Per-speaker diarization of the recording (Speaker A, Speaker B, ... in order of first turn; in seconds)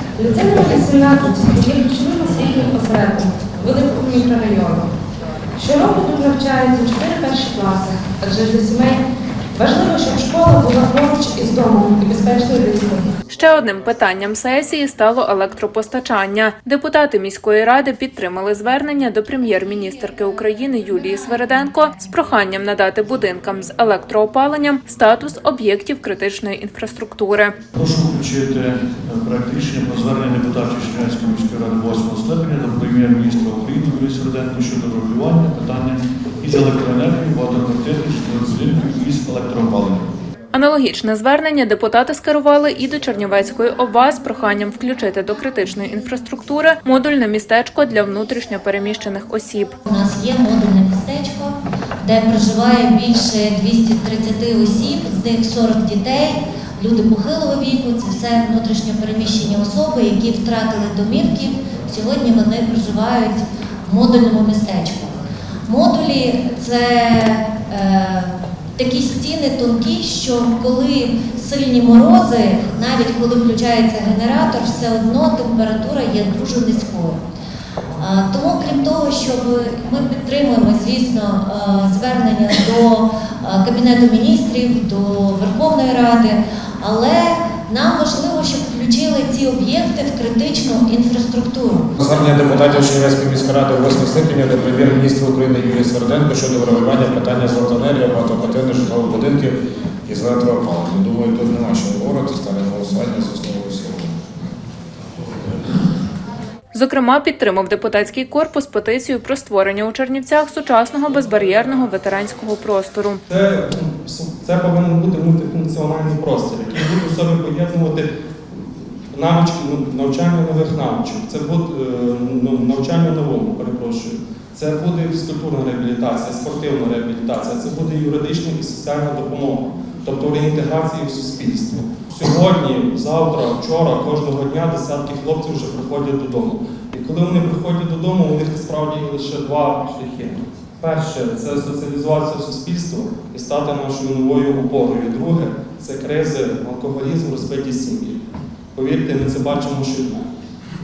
Speaker A: 0.2-4.9, 5.6-9.0, 9.5-13.1
Speaker B: 13.3-27.5, 40.5-49.7, 106.7-113.2
Speaker C: 27.8-40.1
Speaker D: 49.8-77.2, 78.0-91.9
Speaker E: 92.0-104.2
Speaker F: 113.3-118.1, 119.1-148.2, 148.8-150.3